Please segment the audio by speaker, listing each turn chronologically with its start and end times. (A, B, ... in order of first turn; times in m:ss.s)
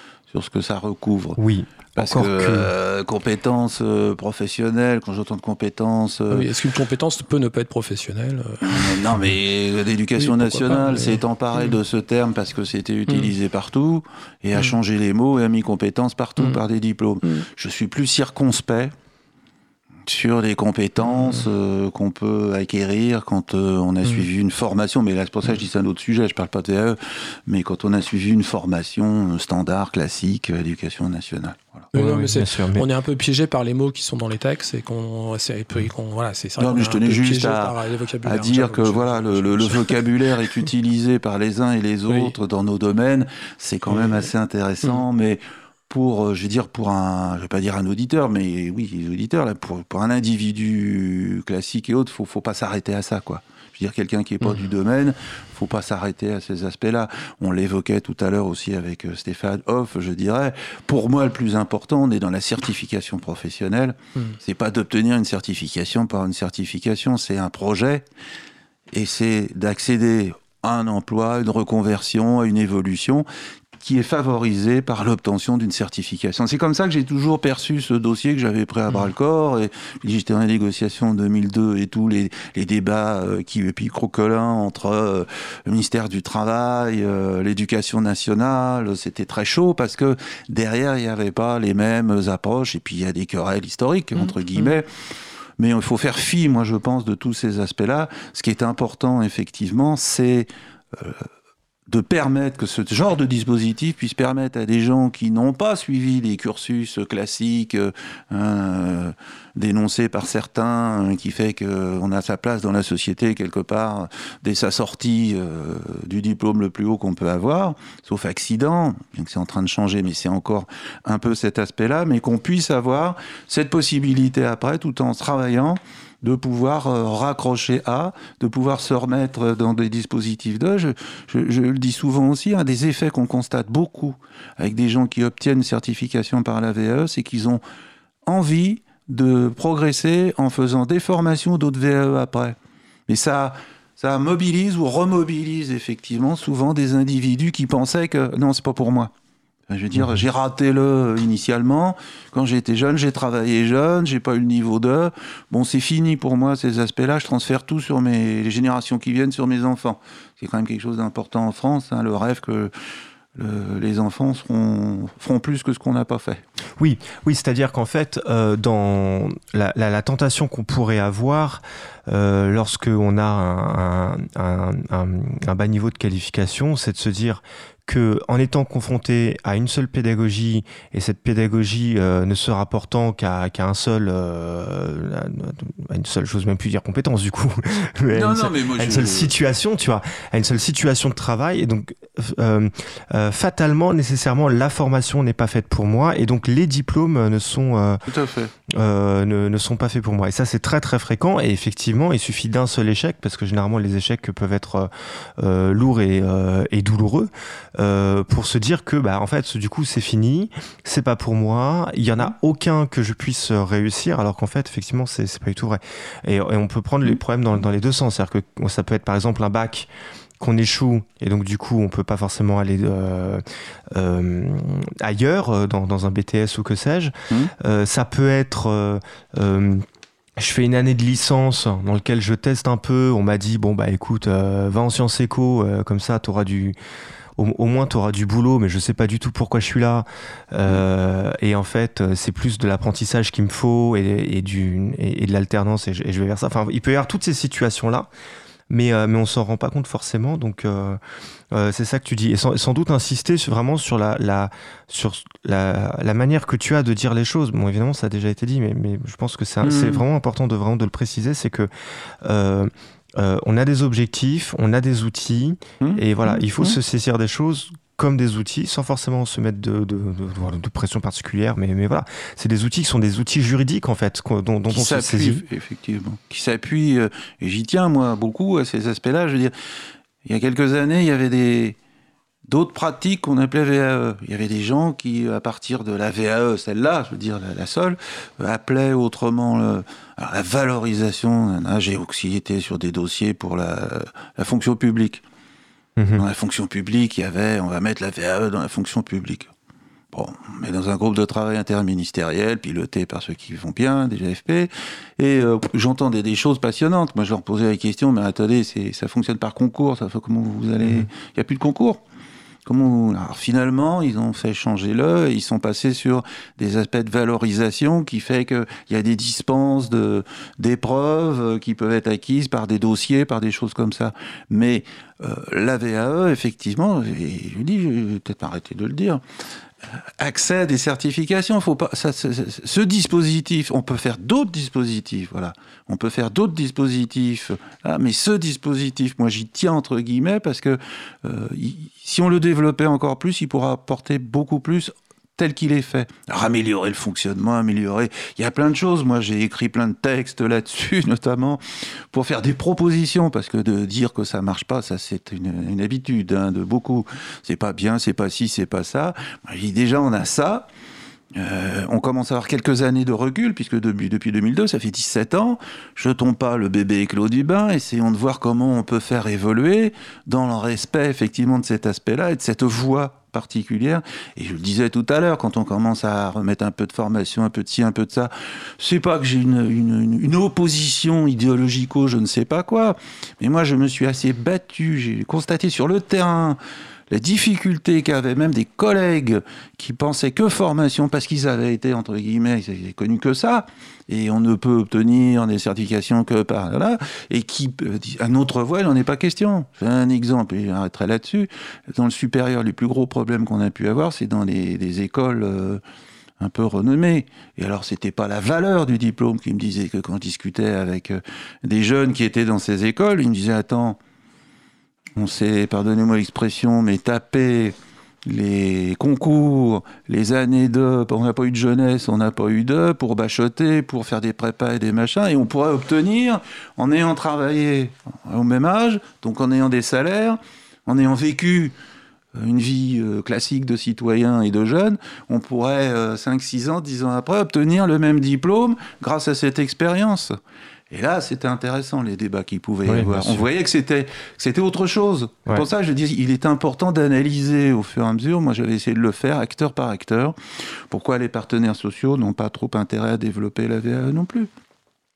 0:00.3-0:01.4 A
0:01.4-0:02.7 B
0:01.9-0:06.5 A
0:06.3-0:09.2 C
0:08.6-0:18.9 A
0:10.2-0:11.7 C
0:20.1-0:31.9 A
0:31.9-0:40.6 C
0:31.9-0:32.9 B
0:36.6-1:08.0 A
0:42.1-0:42.3 C
1:08.9-1:13.2 A
1:13.8-1:34.9 A
1:35.6-1:41.3 A
1:41.9-2:17.6 A
2:18.2-2:22.6 A
2:23.1-2:29.1 A
2:29.7-2:42.7 A
2:43.3-2:46.4 A
2:46.8-3:18.1 B
3:08.1-3:09.3 A
3:18.0-3:18.5 A
3:18.7-3:39.9 B
3:40.4-3:49.8 B
3:50.4-3:56.8 B
3:57.4-4:08.1 B
4:08.7-4:11.0 B
4:11.5-4:21.7 B
4:19.6-4:20.0 A
4:22.2-4:35.4 B
4:25.8-4:26.8 A
4:34.7-4:39.5 A
4:40.2-4:41.8 A
4:42.5-4:55.2 A
4:56.0-4:56.2 B
4:56.1-4:59.5 A
5:00.1-5:12.0 A
5:12.6-5:29.2 A
5:30.2-6:00.7 A
6:01.3-6:26.6 A
6:27.1-6:45.8 A
6:46.4-6:54.0 A
6:55.2-7:11.7 A
7:12.3-7:20.4 A
7:20.9-7:30.4 A
7:22.8-7:23.5 B
7:30.9-7:34.5 A